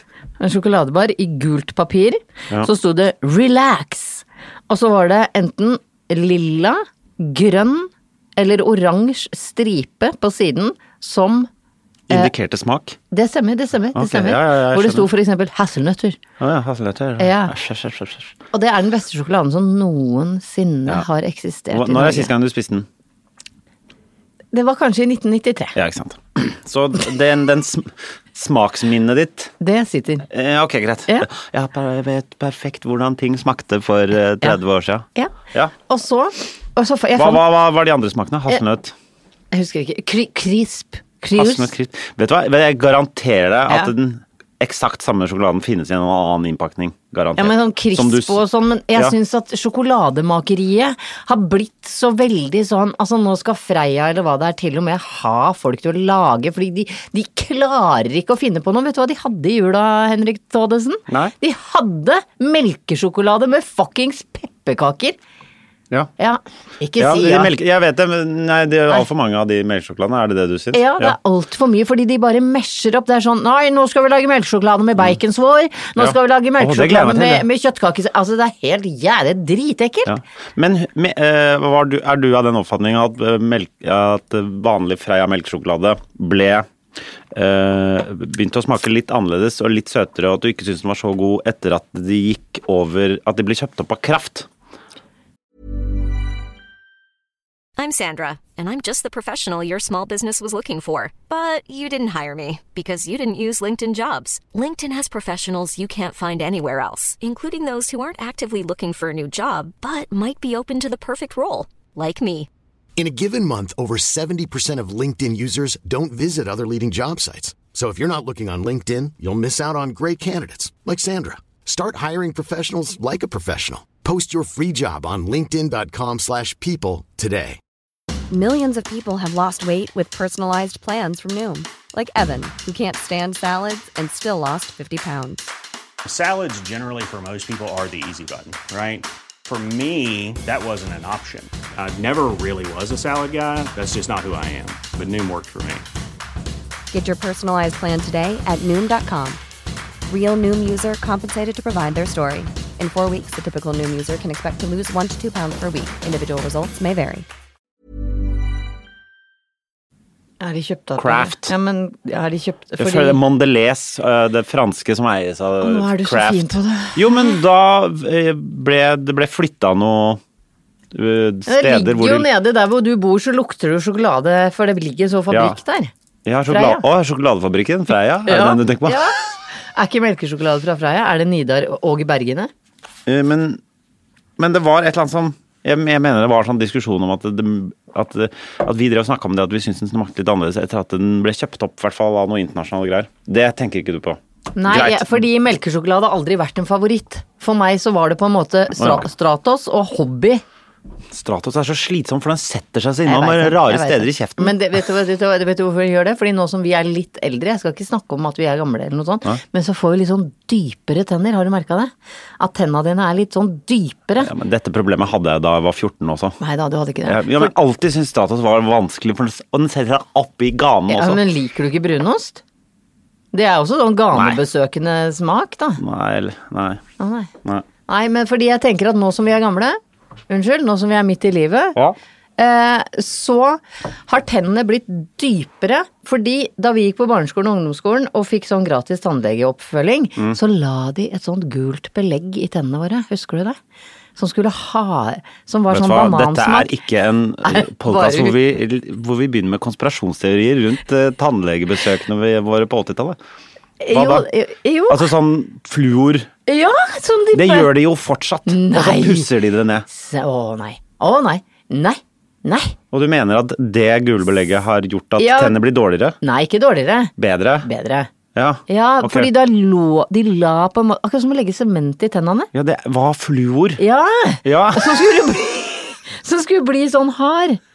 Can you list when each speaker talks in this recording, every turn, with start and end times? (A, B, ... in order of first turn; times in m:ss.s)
0:00.4-0:11.5 A
0:12.1-0:13.0 B
0:13.1-0:16.2 A
0:14.0-0:15.1 B
0:16.4-0:18.3 B
0:17.2-0:17.5 A
0:18.5-0:22.3 A
0:21.7-0:22.9 B
0:24.5-0:25.8 A
0:25.8-0:29.5 B
0:29.6-0:30.3 A
0:30.3-0:35.7 B
0:35.2-0:37.4 A
0:37.2-0:38.9 B
0:39.5-0:41.7 A
0:41.4-0:48.4 B
0:47.4-1:05.2 A
1:01.1-1:01.3 B
1:06.2-1:07.5 A
1:07.0-1:11.2 B
1:10.7-1:20.1 A
1:16.0-1:17.5 B
1:20.1-1:26.7 B
1:27.3-1:34.5 B
1:37.8-1:52.5 C
1:53.0-2:07.6 D
2:08.3-2:15.5 E
2:16.0-2:25.8 F
2:26.9-2:29.4 E
2:30.1-2:37.3 E
2:40.4-2:43.2 A
2:41.0-2:41.5 B
2:42.8-2:50.2 B
2:45.6-2:47.4 A
2:50.9-2:52.3 B
2:51.5-2:55.9 A
2:55.3-2:55.6 B
2:56.2-2:59.1 B
2:56.5-2:56.8 A
2:58.3-3:02.5 A
3:03.1-3:03.6 B
3:04.4-3:15.2 B
3:14.6-3:20.4 A
3:18.8-3:19.1 B
3:21.1-3:24.6 B
3:23.1-3:34.3 A
3:34.2-3:36.4 B
3:36.4-3:37.5 A
3:37.1-3:41.2 B
3:40.9-3:42.4 A
3:43.3-3:45.8 A
3:44.1-3:44.4 B
3:45.8-3:46.8 B
3:47.0-3:47.3 A
3:47.9-3:49.8 A
3:50.3-3:51.8 A
3:52.4-4:03.6 A
4:04.2-4:06.7 A
4:05.7-4:13.2 B
4:07.4-4:08.4 A
4:13.8-4:15.1 A
4:13.9-4:14.3 B
4:14.9-4:16.3 B
4:16.5-4:17.7 A
4:17.3-4:19.9 B
4:18.5-4:19.3 A
4:19.9-4:22.8 A
4:22.9-4:26.2 B
4:25.2-4:25.6 A
4:26.2-4:27.1 A
4:27.2-4:27.7 B
4:27.6-4:28.1 A
4:28.4-4:29.3 B
4:28.7-4:32.5 A
4:32.5-4:33.8 B
4:33.8-4:37.6 A
4:34.4-4:35.0 B